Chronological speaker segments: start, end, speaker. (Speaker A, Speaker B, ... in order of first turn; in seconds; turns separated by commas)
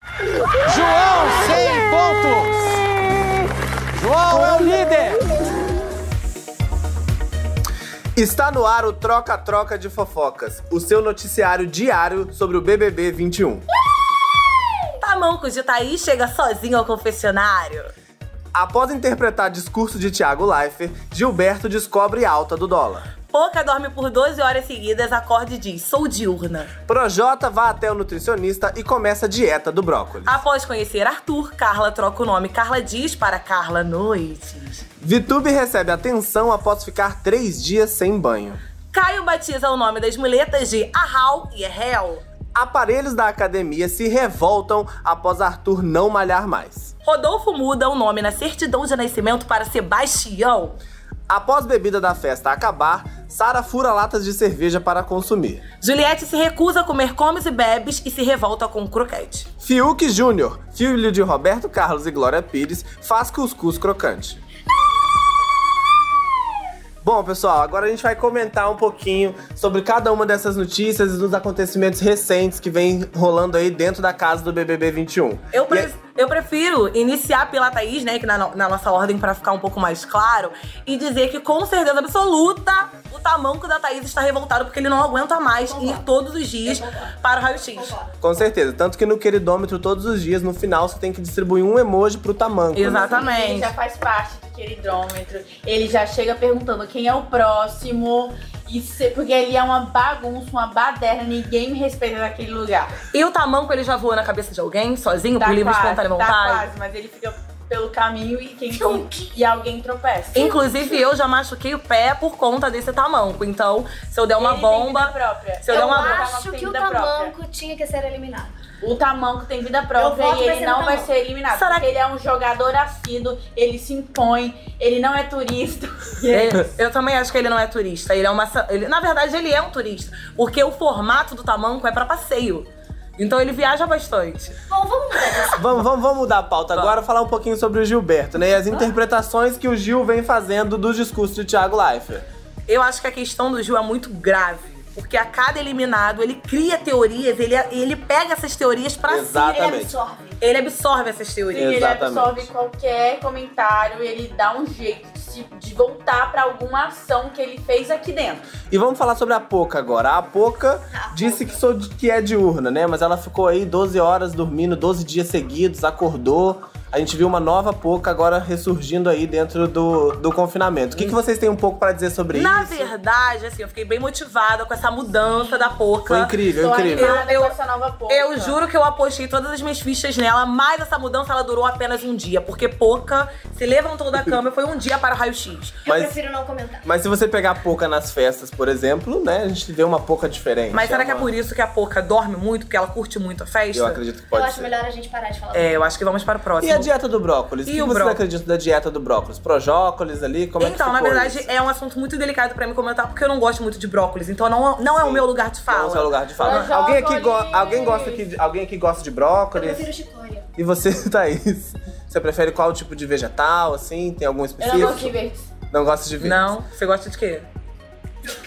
Speaker A: 0.7-2.8, Speaker A: 4.0-5.2, Speaker B: 8.2-13.6, Speaker C: 15.0-17.9, Speaker B: 18.6-23.1, Speaker C: 23.3-26.7, Speaker B: 26.9-30.4, Speaker C: 30.3-34.9, Speaker B: 35.0-38.6, Speaker C: 38.9-42.2, Speaker B: 42.6-46.9, Speaker C: 47.0-50.8, Speaker B: 51.3-55.6, Speaker C: 55.8-59.5, Speaker B: 59.6-64.4, Speaker B: 67.0-75.9, Speaker C: 75.5-88.0, Speaker D: 85.7-86.0, Speaker D: 86.6-87.1, Speaker D: 87.7-88.1, Speaker B: 88.2-93.3, Speaker C: 92.7-93.7, Speaker E: 93.0-103.0, Speaker C: 103.1-106.7, Speaker E: 105.4-110.5, Speaker D: 108.8-109.3, Speaker C: 110.3-116.3, Speaker D: 110.4-111.0, Speaker E: 114.4-117.3, Speaker D: 115.7-118.5, Speaker E: 118.8-126.6, Speaker D: 120.0-121.1, Speaker C: 121.5-121.9, Speaker C: 126.3-134.6, Speaker D: 134.7-135.7, Speaker B: 135.5-142.2, Speaker C: 136.7-137.0, Speaker C: 142.7-149.8, Speaker B: 149.1-150.0, Speaker D: 149.4-150.4, Speaker C: 150.4-151.7, Speaker E: 151.5-158.4, Speaker B: 151.6-152.5, Speaker B: 158.7-172.9, Speaker D: 160.9-161.6, Speaker C: 172.3-176.4, Speaker B: 176.1-177.2, Speaker E: 176.6-178.6, Speaker C: 176.9-177.6, Speaker C: 178.1-185.8, Speaker D: 185.8-186.9, Speaker B: 185.9-186.2, Speaker B: 186.8-191.3, Speaker C: 190.7-194.0, Speaker B: 193.7-194.7, Speaker D: 194.3-195.9, Speaker C: 195.5-196.9, Speaker B: 196.6-201.5, Speaker C: 197.7-198.2, Speaker C: 200.6-206.7, Speaker B: 205.0-209.9, Speaker E: 206.4-208.3, Speaker D: 209.5-210.5, Speaker B: 210.6-215.1, Speaker E: 214.6-215.4, Speaker B: 215.7-216.5, Speaker C: 216.2-217.5